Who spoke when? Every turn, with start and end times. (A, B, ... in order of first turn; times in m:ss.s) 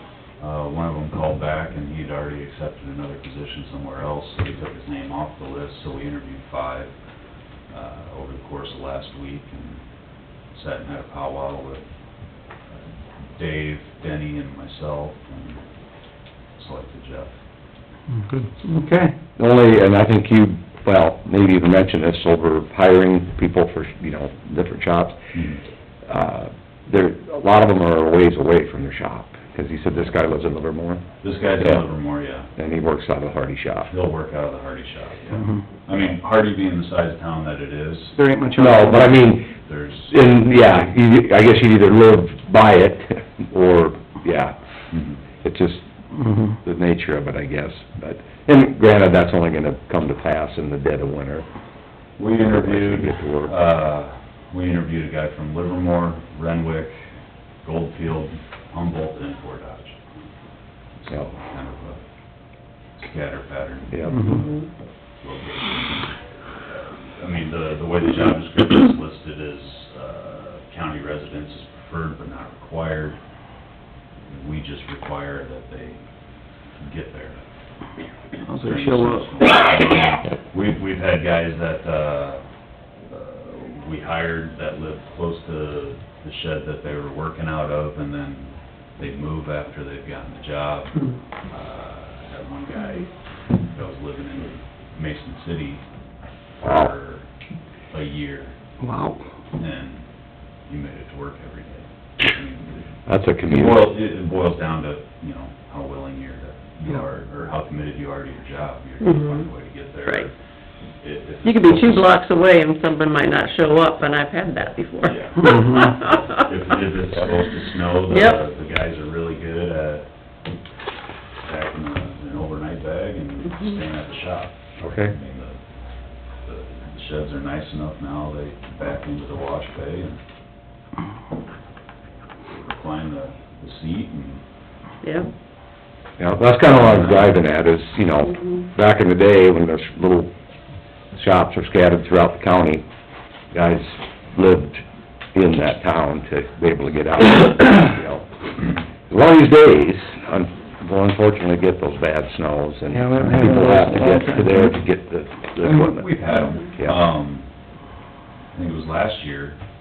0:00.4-0:06.9 A
0:07.7-0:09.8 A
0:10.5-0:11.9 A
0:12.7-0:15.6 A
0:16.6-0:17.4 A
0:18.6-0:19.2 B
0:19.4-0:25.2 C
0:25.3-0:25.6 A
0:26.1-0:31.0 C
0:31.2-0:32.5 A
0:32.6-0:33.9 C
0:33.9-0:38.2 A
0:35.4-0:35.6 B
0:38.2-0:39.1 B
0:38.6-0:39.5 C
0:38.9-0:40.6 A
0:40.1-0:44.6 C
0:44.9-0:45.2 A
0:45.4-0:45.8 C
0:46.2-0:46.6 B
0:46.6-0:51.5 C
0:52.2-0:57.1 A
0:52.4-0:53.5 C
0:57.6-1:00.0 A
1:01.0-1:02.0 A
1:03.0-1:04.6 A
1:03.9-1:04.3 C
1:04.1-1:04.4 B
1:05.2-1:13.2 A
1:14.3-1:16.0 A
1:16.8-1:17.4 A
1:18.5-1:19.5 B
1:18.6-1:22.4 A
1:23.1-1:33.1 A
1:33.7-1:35.8 A
1:36.6-1:37.3 A
1:36.6-1:36.9 C
1:37.9-1:38.6 A
1:38.8-1:39.2 B
1:39.6-1:40.1 A
1:40.7-1:42.9 A
1:43.1-1:43.9 C
1:43.5-1:50.3 A
1:49.0-1:49.4 D
1:51.0-1:52.1 A
1:51.4-1:56.4 D
1:55.0-2:00.1 A
1:55.4-1:56.0 B
1:58.1-1:58.4 D
2:01.4-2:05.6 A
2:04.8-2:05.1 C
2:06.4-2:10.2 A
2:12.5-2:14.4 A
2:15.0-2:15.3 D
2:16.2-2:20.3 C
2:16.7-2:17.3 A
2:21.2-2:22.9 C
2:23.5-2:36.2 C
2:32.9-2:34.7 B
2:35.6-2:37.5 A
2:38.5-2:39.6 A